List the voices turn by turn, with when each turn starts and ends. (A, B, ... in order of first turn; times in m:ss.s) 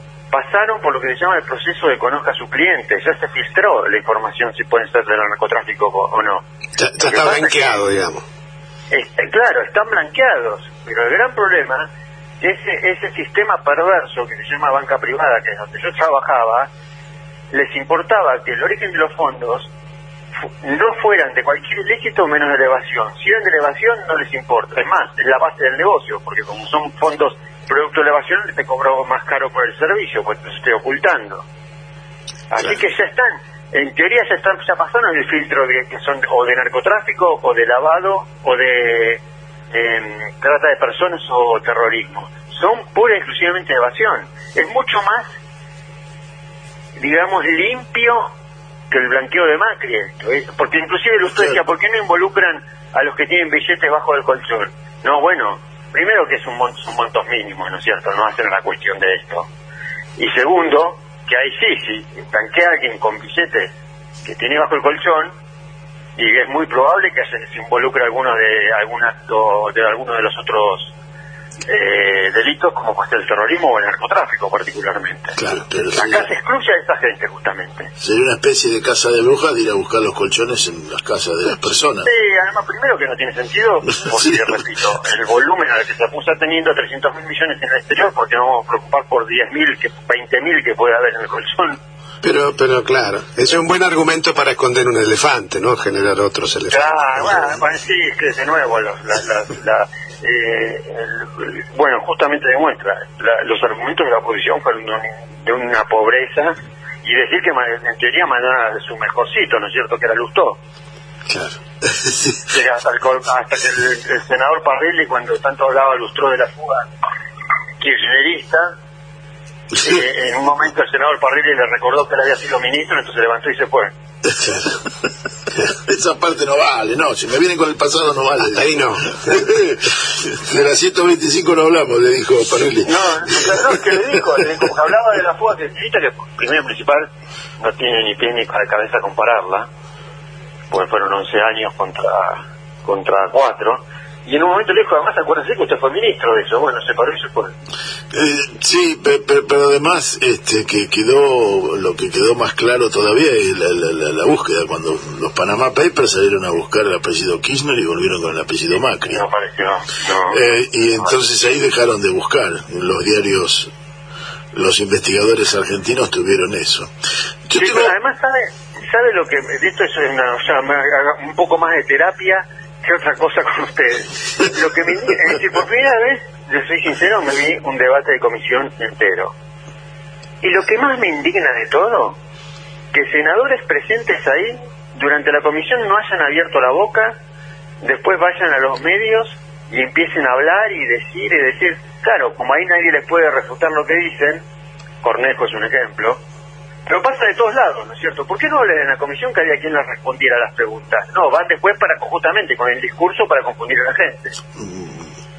0:00.3-0:06.4 A
0:06.8-0:08.2 B
0:07.0-0:07.8 A
0:08.9-0:11.9 A
0:12.4-0:16.7 A
0:17.5-0:19.7 A
0:20.6-0:31.4 A
0:32.5-0:39.2 A
0:39.7-0:45.3 A
0:47.0-0:48.3 A
0:48.9-0:59.5 A
1:00.2-1:03.7 A
1:04.2-1:05.3 A
1:06.2-1:10.9 A
1:11.7-1:15.4 A
1:15.4-1:15.6 B
1:15.5-1:16.3 C
1:15.9-1:17.9 A
1:18.0-1:22.1 C
1:22.0-1:31.8 A
1:32.2-1:37.6 B
1:36.7-1:50.6 A
1:51.3-1:51.6 B
1:52.5-1:56.9 A
1:57.8-1:58.8 A
1:59.8-2:03.9 A
2:04.4-2:04.8 B
2:05.7-2:13.8 C
2:08.5-2:09.5 B
2:12.8-2:17.1 A
2:17.6-2:19.7 A
2:20.7-2:27.5 A
2:28.1-2:39.2 C
2:39.1-2:41.1 A
2:40.3-2:43.7 C
2:44.5-2:46.9 C
2:47.5-2:47.9 C
2:47.6-2:59.3 A
3:00.4-3:02.2 A
3:02.9-3:07.2 A
3:07.8-3:14.4 A
3:15.0-3:16.2 A
3:16.9-3:24.4 A
3:24.6-3:25.1 C